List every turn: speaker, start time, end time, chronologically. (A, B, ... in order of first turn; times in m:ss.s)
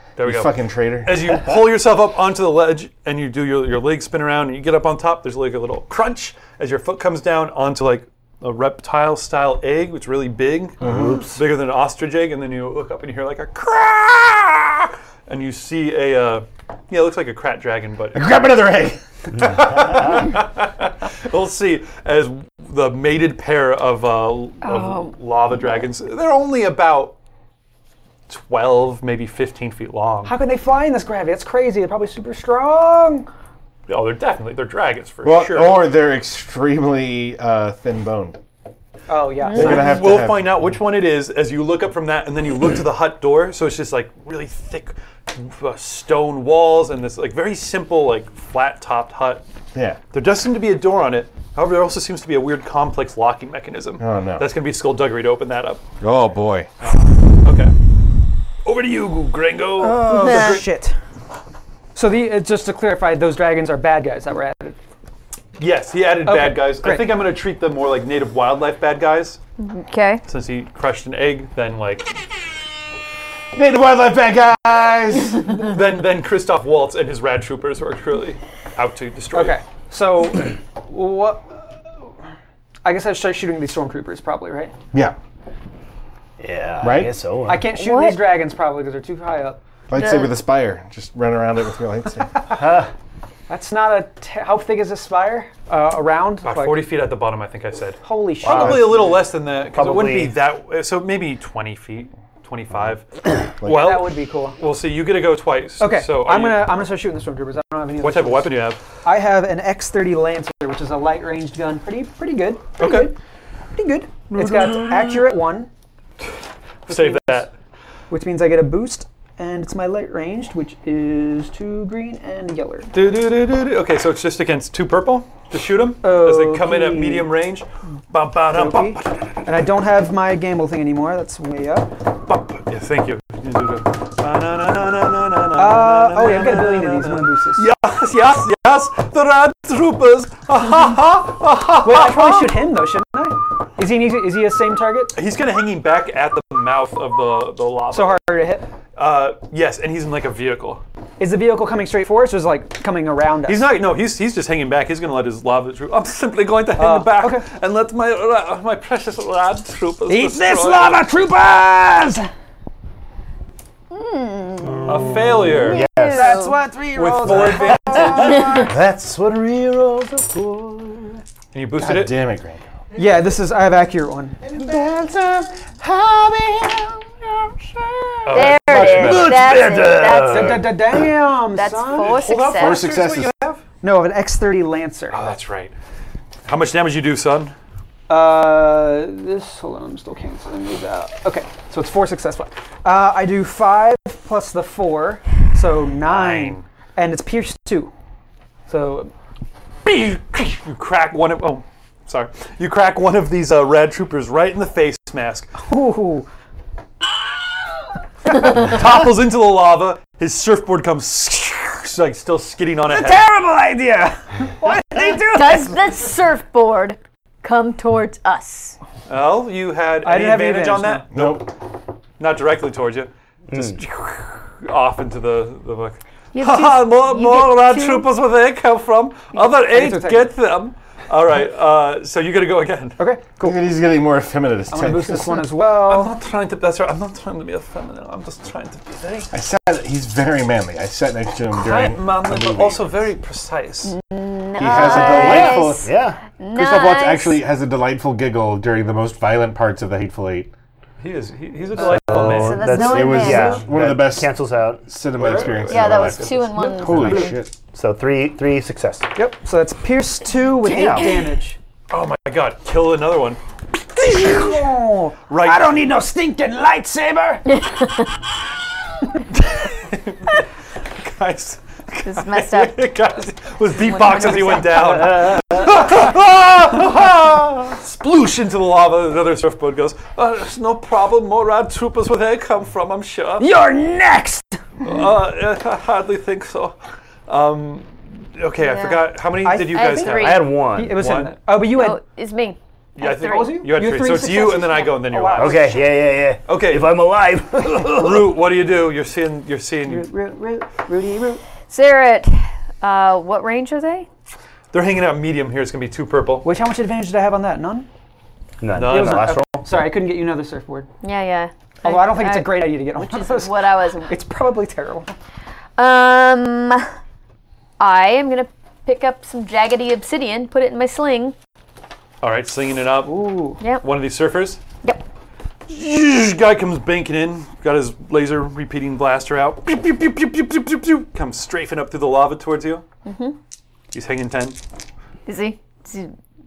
0:00.2-0:18.2 A
0:00.2-0:01.4 B
0:10.8-0:11.2 B
0:10.8-0:11.4 C
0:18.1-0:19.0 B
0:19.4-0:27.2 A
0:24.6-0:25.1 D
0:28.3-0:30.3 A
0:30.2-0:33.3 E
0:33.9-0:35.8 A
0:35.2-0:38.4 B
0:39.1-0:39.9 E
0:39.5-0:40.5 B
0:39.5-0:49.4 A
0:49.7-0:50.0 B
0:50.1-0:55.8 A
0:54.0-0:54.5 B
0:56.0-0:56.7 B
0:56.8-0:57.7 A
0:58.6-1:00.7 A
0:59.8-1:01.0 E
1:00.2-1:00.6 D
1:01.9-1:04.8 E
1:05.6-1:09.4 A
1:06.2-1:07.2 E
1:09.6-1:10.2 D
1:10.3-1:12.1 A
1:13.5-1:15.5 B
1:15.5-1:19.6 A
1:19.3-1:21.7 E
1:22.8-1:24.7 E
1:26.4-1:27.7 C
1:26.8-1:27.1 B
1:27.4-1:29.6 E
1:27.7-1:28.2 D
1:29.9-1:32.4 B
1:29.9-1:30.3 D
1:32.5-1:32.9 C
1:33.5-1:36.9 E
1:36.4-1:43.0 A
1:38.0-1:39.1 E
1:38.4-1:39.2 C
1:39.7-1:40.3 C
1:43.6-1:46.7 A
1:43.6-1:44.6 E
1:45.8-1:53.2 E
1:48.0-1:48.8 A
1:52.8-1:53.1 A
1:53.7-1:55.7 E
1:54.3-1:55.2 A
1:56.9-1:57.5 E
1:56.9-1:57.5 A
1:58.1-2:02.9 E
2:02.9-2:09.2 A
2:06.0-2:07.3 E
2:08.5-2:11.9 E
2:12.3-2:22.5 A
2:15.6-2:17.6 E
2:21.8-2:25.1 E
2:25.1-2:28.2 A
2:27.9-2:28.7 E
2:29.0-2:30.8 A
2:31.2-2:33.7 E
2:33.5-2:41.0 A
2:36.8-2:37.4 E
2:40.1-2:42.3 E
2:43.9-2:46.6 D
2:44.8-2:46.5 C
2:44.8-2:45.8 A
2:46.1-2:48.7 E
2:46.9-2:48.5 A
2:47.2-2:51.2 C
2:51.5-2:52.2 A
2:51.8-2:52.6 B
2:52.9-2:54.4 E
2:54.4-2:56.7 B
2:55.8-2:56.8 C
2:58.2-2:59.4 A
2:58.2-2:59.4 B
2:58.2-3:01.0 C
2:58.3-3:00.7 D
3:00.2-3:02.4 E
3:01.5-3:02.8 D
3:02.0-3:03.6 A
3:02.6-3:03.3 B
3:03.8-3:05.3 E
3:05.1-3:05.7 A
3:06.4-3:07.5 A
3:08.1-3:17.9 E
3:16.0-3:16.6 A
3:18.7-3:19.1 E
3:19.8-3:25.5 A
3:25.6-3:26.3 E
3:28.2-3:33.2 A
3:32.9-3:35.8 E
3:35.3-3:38.8 D
3:39.1-3:41.5 A
3:40.0-3:41.1 E
3:41.1-3:41.5 B
3:42.2-3:53.0 A
3:43.5-3:43.8 C
3:46.3-3:48.1 D
3:49.6-3:50.3 E
3:53.0-3:53.6 E
3:53.4-3:55.4 B
3:54.7-3:56.2 E
3:55.6-3:59.3 A
3:59.3-4:03.0 B
4:01.5-4:03.9 A
4:03.8-4:07.4 D
4:04.6-4:05.9 B
4:04.7-4:06.2 C
4:06.5-4:10.5 B
4:11.0-4:12.8 A
4:11.8-4:14.8 C
4:12.0-4:13.6 D
4:12.7-4:17.5 B
4:15.2-4:16.5 A
4:15.7-4:17.3 D
4:16.7-4:17.3 E
4:17.7-4:19.1 C
4:19.1-4:21.6 E
4:20.6-4:21.2 C
4:21.9-4:23.4 A
4:24.0-4:27.4 E
4:25.3-4:25.8 A
4:27.4-4:28.1 D
4:29.3-4:43.5 A
4:32.0-4:32.8 D
4:33.9-4:35.1 D
4:35.2-4:35.6 C
4:43.4-4:44.6 E
4:44.8-4:46.7 A
4:47.3-4:51.4 A
4:48.6-4:49.1 D
4:49.4-4:52.0 E
4:49.6-4:50.5 D
4:50.2-4:51.0 C
4:51.7-4:53.6 D
4:53.0-4:55.8 A
4:53.0-4:56.0 E
4:55.4-4:58.4 C
4:56.4-4:57.1 A
4:57.7-5:00.1 A
4:59.8-5:01.4 E
5:01.7-5:04.0 D
5:04.7-5:06.5 A
5:06.4-5:07.9 E
5:08.6-5:09.7 C
5:08.7-5:09.3 A
5:08.8-5:10.9 E
5:11.0-5:14.2 D
5:11.8-5:15.1 E
5:15.8-5:16.9 D
5:17.8-5:21.3 D
5:22.2-5:24.6 A
5:23.0-5:23.6 E
5:23.6-5:23.8 D
5:25.7-5:32.8 A
5:33.0-5:33.4 D
5:33.9-5:34.6 A
5:35.2-5:36.1 D